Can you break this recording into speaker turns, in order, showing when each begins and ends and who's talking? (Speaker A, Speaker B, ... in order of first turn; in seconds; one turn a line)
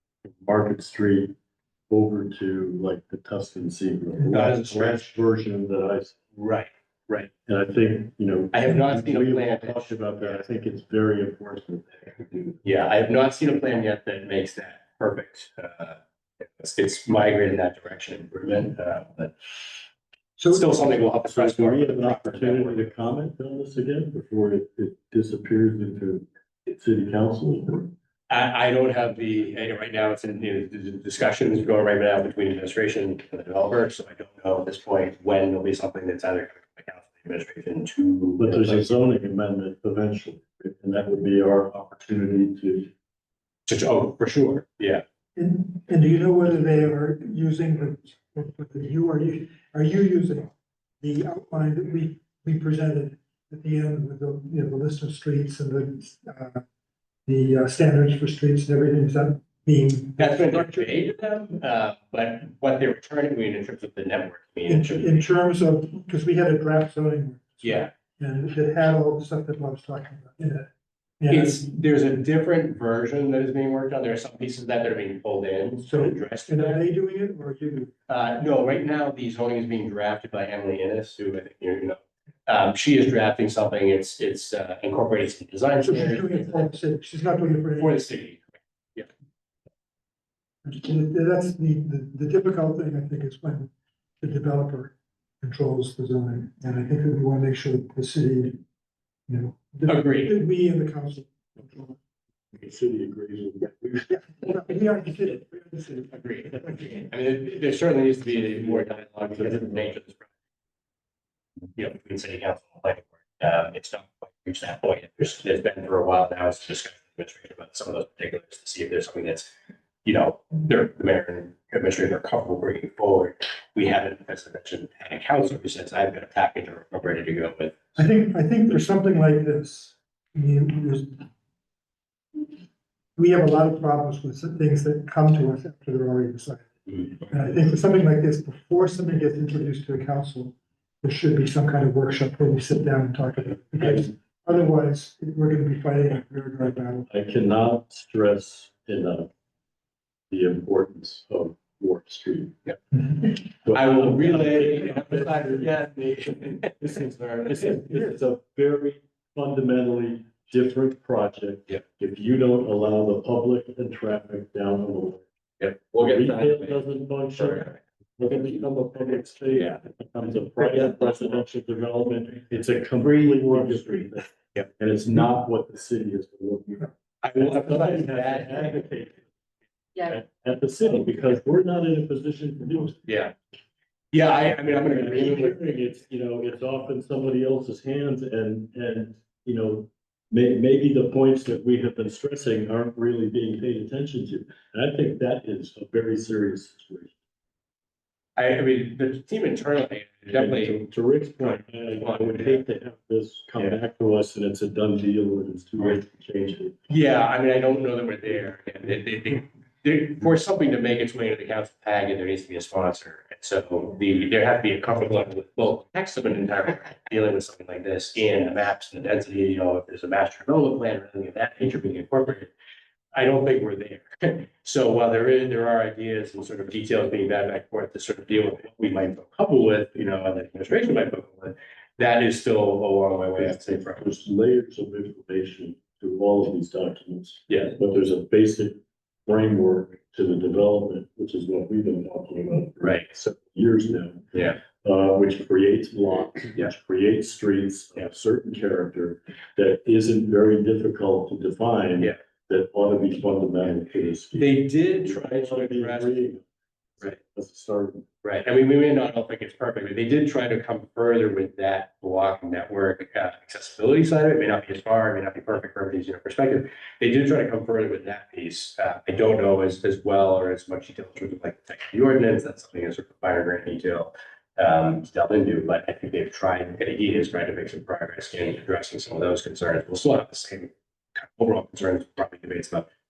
Speaker A: 0.2-1.4
Speaker A: 1.9-6.2
Speaker B: 4.3-5.1
Speaker B: 6.3-7.3
Speaker A: 7.5-12.6
Speaker B: 8.5-10.4
Speaker B: 12.6-19.3
Speaker C: 20.4-20.8
Speaker B: 20.5-22.9
Speaker A: 21.3-27.9
Speaker B: 28.3-38.9
Speaker A: 38.4-42.9
Speaker B: 43.7-45.0
Speaker C: 45.4-56.6
Speaker C: 57.2-60.9
Speaker B: 60.2-65.2
Speaker C: 64.7-70.7
Speaker B: 67.6-67.9
Speaker C: 71.2-71.6
Speaker B: 71.3-76.8
Speaker C: 75.8-77.9
Speaker B: 78.1-86.7
Speaker C: 85.8-88.0
Speaker B: 87.7-89.1
Speaker C: 90.6-98.6
Speaker C: 99.3-102.0
Speaker B: 99.9-100.3
Speaker A: 102.5-104.1
Speaker C: 104.1-106.9
Speaker B: 106.1-110.3
Speaker A: 108.7-110.0
Speaker B: 111.8-119.5
Speaker B: 120.0-127.8
Speaker C: 128.0-131.3
Speaker C: 133.2-147.1
Speaker A: 147.1-149.3
Speaker A: 150.3-152.6
Speaker B: 152.7-157.8
Speaker A: 153.6-155.7
Speaker A: 156.8-165.2
Speaker B: 165.6-166.8
Speaker A: 166.0-179.2
Speaker B: 167.4-167.7
Speaker B: 169.5-169.8
Speaker B: 177.2-178.8
Speaker A: 180.0-183.0
Speaker B: 183.1-183.3
Speaker B: 184.1-185.6
Speaker A: 184.7-197.1
Speaker B: 198.3-200.8
Speaker A: 200.3-206.8
Speaker B: 201.4-202.6
Speaker B: 206.9-222.5
Speaker B: 223.1-234.1
Speaker A: 233.4-256.4
Speaker B: 237.5-237.7
Speaker B: 244.3-244.6
Speaker B: 254.3-256.2
Speaker A: 257.0-258.1
Speaker B: 258.2-282.9